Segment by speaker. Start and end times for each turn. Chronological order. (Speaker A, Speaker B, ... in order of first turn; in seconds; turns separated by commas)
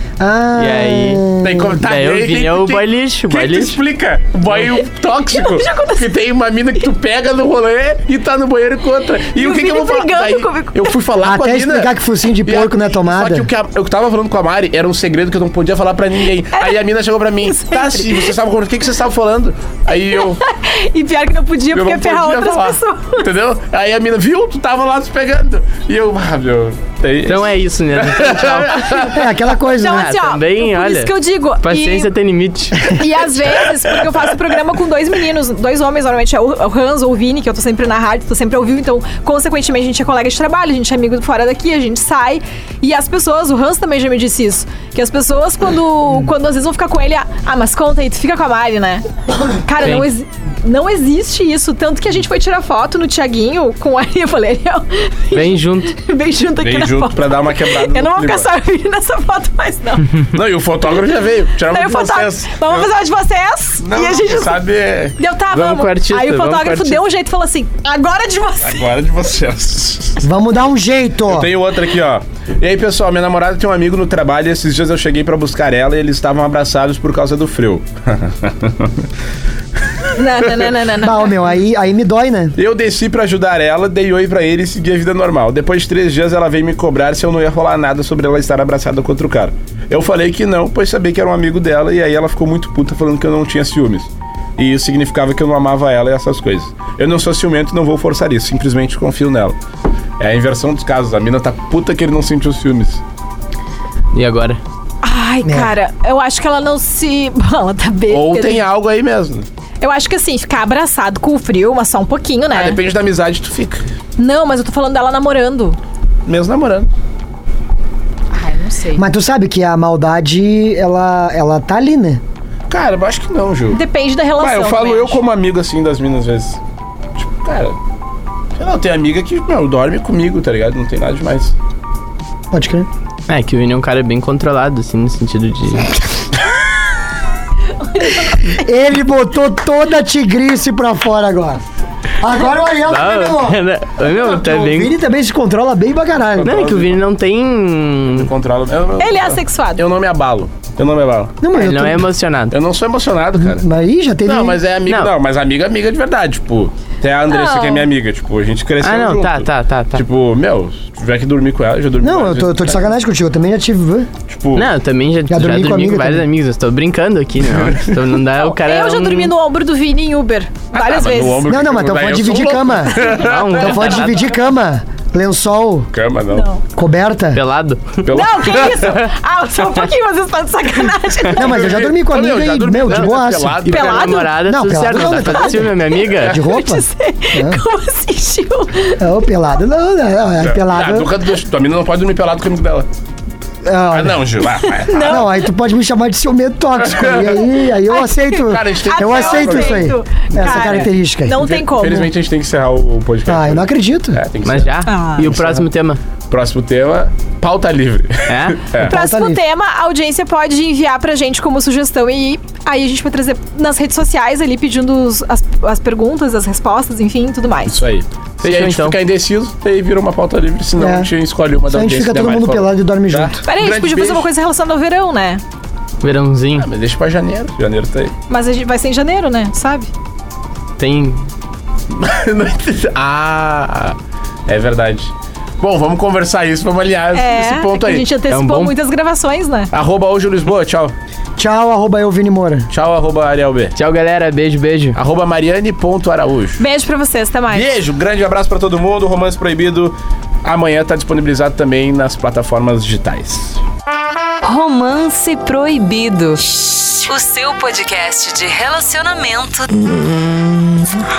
Speaker A: 0.2-1.8, Speaker B: 0.6-1.3, Speaker C: 1.4-11.9, Speaker B: 1.8-3.8, Speaker D: 5.3-6.1, Speaker D: 9.3-10.9, Speaker A: 11.2-13.5, Speaker C: 12.4-20.4, Speaker D: 17.4-18.3, Speaker D: 20.1-23.3, Speaker C: 21.7-29.2, Speaker B: 27.2-29.0, Speaker D: 28.8-32.1, Speaker A: 29.1-30.1, Speaker B: 29.8-33.0, Speaker D: 32.9-60.2, Speaker B: 49.8-50.1, Speaker B: 55.3-55.9, Speaker C: 56.6-58.5, Speaker C: 60.3-62.9, Speaker D: 61.7-64.6, Speaker C: 63.8-65.2, Speaker D: 65.2-68.9, Speaker B: 65.5-67.0, Speaker C: 68.6-70.2, Speaker A: 70.2-71.5, Speaker C: 71.3-79.0, Speaker C: 80.0-80.7, Speaker D: 80.2-81.5, Speaker A: 81.0-82.5, Speaker C: 82.5-99.5, Speaker C: 100.2-103.0, Speaker B: 104.1-104.6, Speaker D: 105.0-108.6, Speaker A: 105.4-105.7, Speaker C: 108.1-109.5, Speaker D: 109.8-112.8, Speaker C: 112.5-113.8, Speaker D: 114.2-115.8, Speaker C: 116.2-116.9, Speaker D: 118.3-119.0, Speaker A: 119.0-122.2, Speaker C: 122.7-123.8, Speaker D: 123.7-125.2, Speaker C: 124.4-126.6, Speaker C: 127.2-127.8, Speaker C: 128.6-131.5, Speaker A: 132.5-132.9, Speaker B: 133.3-136.0, Speaker A: 138.5-141.6, Speaker A: 142.2-146.6, Speaker B: 142.8-144.9, Speaker C: 146.3-147.0, Speaker B: 146.4-148.3, Speaker C: 148.1-151.3, Speaker D: 149.0-149.8, Speaker A: 151.4-152.1, Speaker B: 151.5-152.5, Speaker C: 152.5-153.7, Speaker A: 153.4-154.6, Speaker C: 154.2-162.8, Speaker D: 157.3-157.9, Speaker B: 158.8-160.0, Speaker A: 162.0-164.1, Speaker C: 164.3-164.7, Speaker B: 164.5-169.3, Speaker A: 165.3-166.2, Speaker C: 167.4-168.1, Speaker D: 168.4-171.4, Speaker C: 170.7-174.2, Speaker A: 171.4-175.9, Speaker B: 173.1-174.1, Speaker C: 175.9-176.5, Speaker D: 176.3-176.6, Speaker A: 176.8-177.4, Speaker B: 177.3-178.1, Speaker C: 178.0-179.1, Speaker D: 178.1-181.5, Speaker C: 181.3-184.1, Speaker A: 181.3-183.7, Speaker B: 183.6-186.4, Speaker D: 183.7-184.4, Speaker A: 184.4-187.6, Speaker D: 184.9-189.1, Speaker A: 189.0-191.1, Speaker C: 190.4-192.9, Speaker A: 193.6-194.2, Speaker C: 193.9-195.2, Speaker D: 194.6-195.4, Speaker A: 195.0-201.4, Speaker C: 196.9-197.4, Speaker D: 197.9-202.1, Speaker C: 198.3-204.7, Speaker A: 203.3-204.2, Speaker B: 204.4-206.0, Speaker D: 204.8-205.3, Speaker C: 205.3-205.6, Speaker C: 206.3-208.9, Speaker B: 208.3-208.7, Speaker A: 208.8-209.4, Speaker D: 208.8-217.8, Speaker C: 217.7-224.3, Speaker B: 218.4-219.0, Speaker A: 220.8-221.1, Speaker A: 221.7-223.4, Speaker D: 223.4-225.4, Speaker B: 226.0-226.7, Speaker C: 226.6-228.1, Speaker D: 228.3-229.9, Speaker B: 230.8-231.2, Speaker C: 231.9-233.9, Speaker C: 234.5-238.1, Speaker D: 237.1-239.7, Speaker B: 238.3-238.7, Speaker C: 239.7-240.9, Speaker A: 241.4-242.7, Speaker C: 242.7-243.7, Speaker B: 243.7-245.0, Speaker C: 244.9-246.6, Speaker D: 246.6-247.8, Speaker C: 247.5-253.6, Speaker E: 254.4-260.6